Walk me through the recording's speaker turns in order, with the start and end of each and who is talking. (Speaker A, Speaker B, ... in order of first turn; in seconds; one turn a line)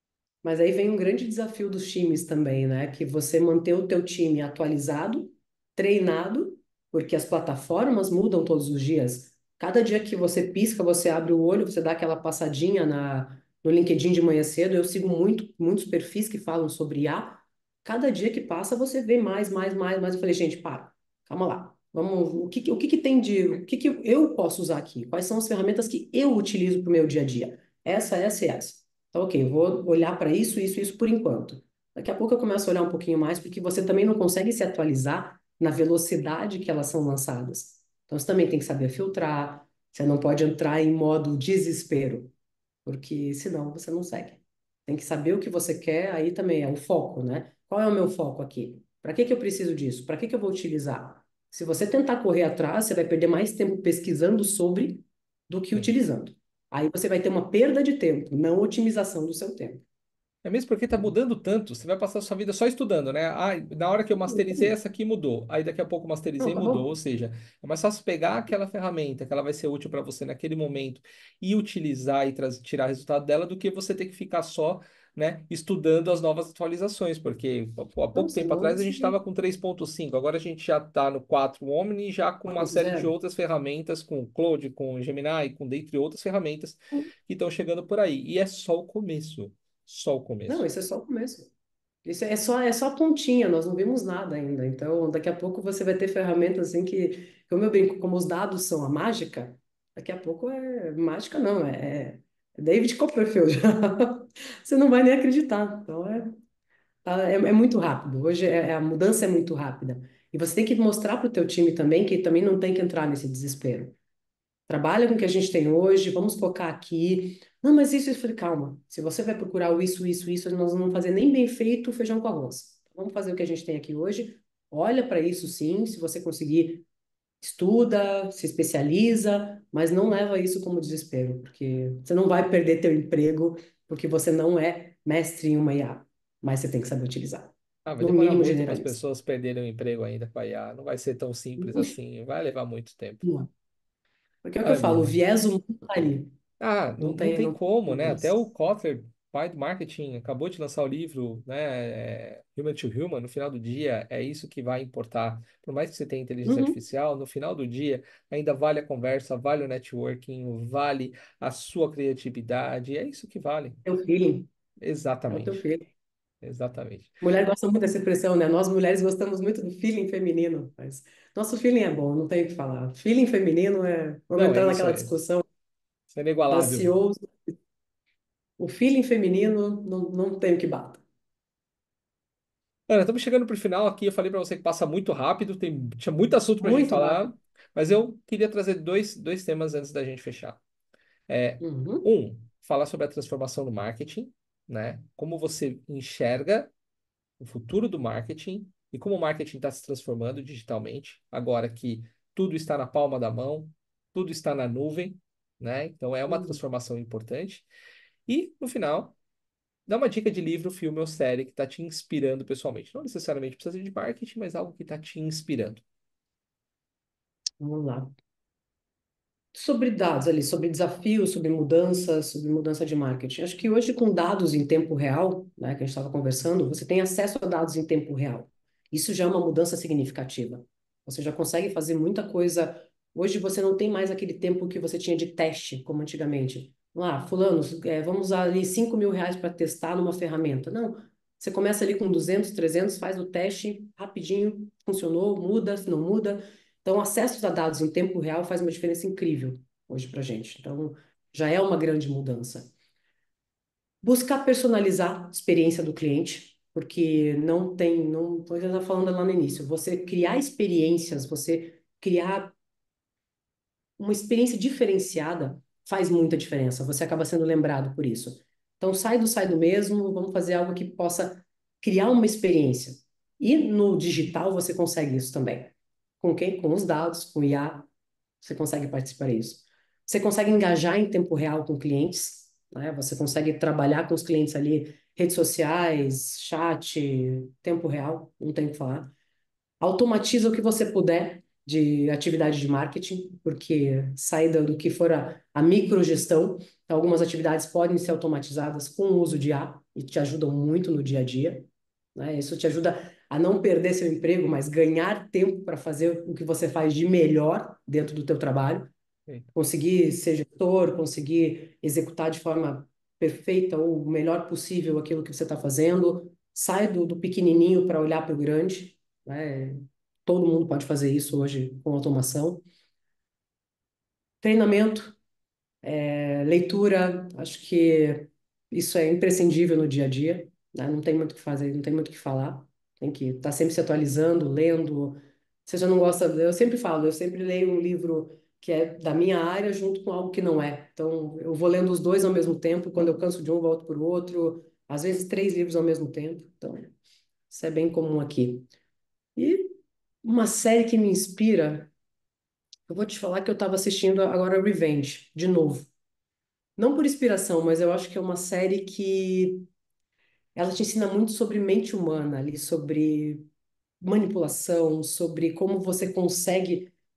Speaker A: 0.4-42.3
Speaker A: 42.9-59.8
Speaker B: 60.4-90.7
Speaker A: 64.3-64.7
Speaker A: 66.4-66.9
Speaker A: 78.2-79.2
Speaker A: 82.5-83.1
Speaker A: 90.5-91.5
Speaker A: 92.0-106.4
Speaker A: 107.0-114.0
Speaker A: 114.7-126.8
Speaker A: 127.4-139.0
Speaker B: 137.8-143.2
Speaker A: 141.6-141.9
Speaker A: 143.2-143.5
Speaker A: 144.4-146.3
Speaker B: 144.6-145.2
Speaker B: 146.6-163.8
Speaker A: 147.0-148.4
Speaker A: 156.4-156.8
Speaker A: 163.8-164.5
Speaker B: 164.8-165.6
Speaker A: 165.3-165.9
Speaker B: 166.4-167.2
Speaker A: 167.2-175.4
Speaker B: 174.4-175.2
Speaker B: 176.1-177.0
Speaker A: 176.5-177.6
Speaker A: 178.6-181.0
Speaker B: 182.9-190.6
Speaker A: 186.6-187.3
Speaker B: 191.3-196.7
Speaker A: 191.6-192.1
Speaker B: 197.4-207.7
Speaker A: 206.3-206.6
Speaker B: 208.3-209.2
Speaker B: 209.9-215.8
Speaker A: 217.6-218.1
Speaker A: 219.5-252.7
Speaker A: 254.0-262.6
Speaker A: 264.0-277.9
Speaker A: 278.4-289.1
Speaker A: 289.8-308.9
Speaker A: 309.5-322.6
Speaker A: 324.4-325.2
Speaker A: 325.8-346.9
Speaker A: 347.5-348.7
Speaker A: 349.4-351.9
Speaker A: 352.9-355.9
Speaker A: 356.8-359.6
Speaker A: 360.6-363.4
Speaker A: 364.0-366.9